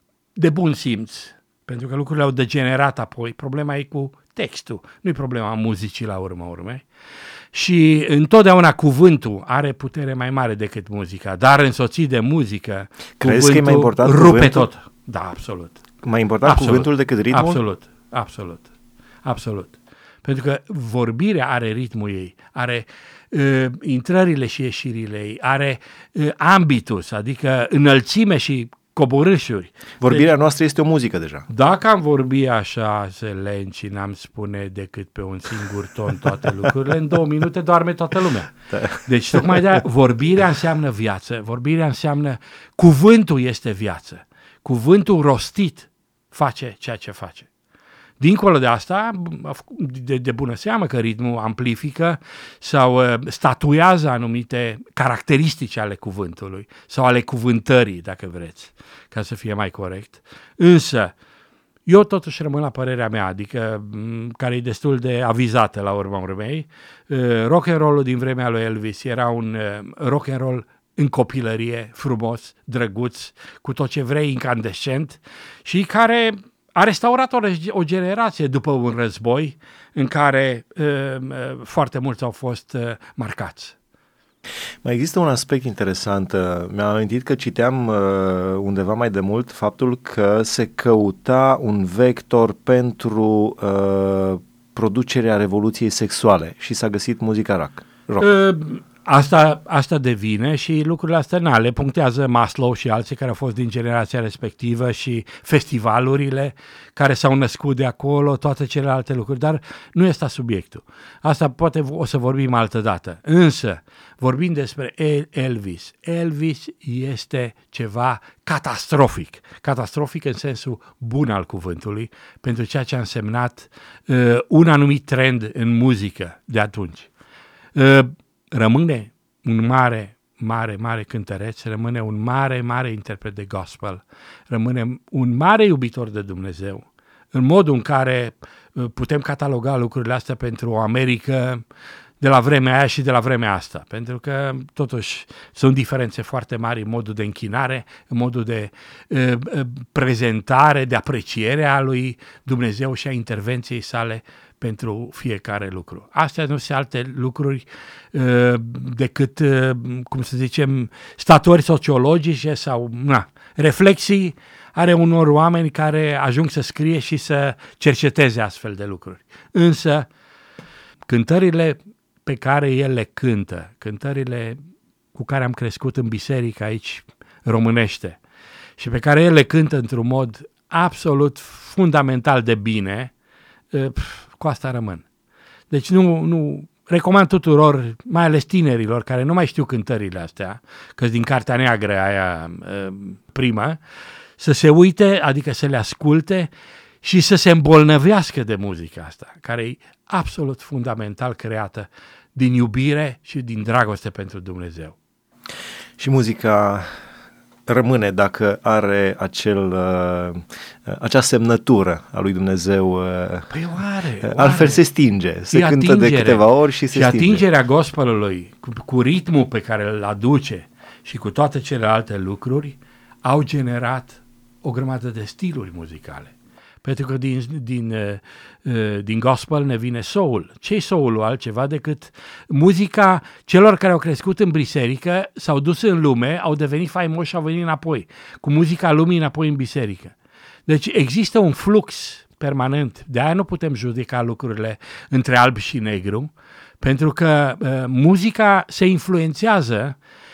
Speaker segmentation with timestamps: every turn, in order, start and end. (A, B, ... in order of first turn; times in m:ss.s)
0:00.4-0:06.8 A
0:07.5-0:15.8 A
0:13.2-0:14.7 B
0:16.0-0:17.6 B
0:16.4-0:18.7 A
0:19.2-0:30.3 A
0:30.0-0:31.5 B
0:31.5-0:47.5 A
0:38.7-0:39.6 B
0:48.2-1:01.1 A
1:01.8-1:23.8 A
1:24.8-1:38.2 B
1:38.2-2:07.1 A
2:07.7-2:21.6 A
2:22.2-2:50.1 A
2:51.1-2:54.6 A
2:55.1-2:58.2 A
2:58.8-3:03.1 A
3:03.7-3:05.0 A
3:05.7-3:13.8 A
3:14.4-3:16.5 A
3:17.0-3:25.0 A
3:26.0-3:26.9 B
3:27.7-3:33.5 B
3:33.5-3:34.8 A
3:34.2-3:37.4 B
3:35.5-4:00.1 A
4:00.6-4:10.0 A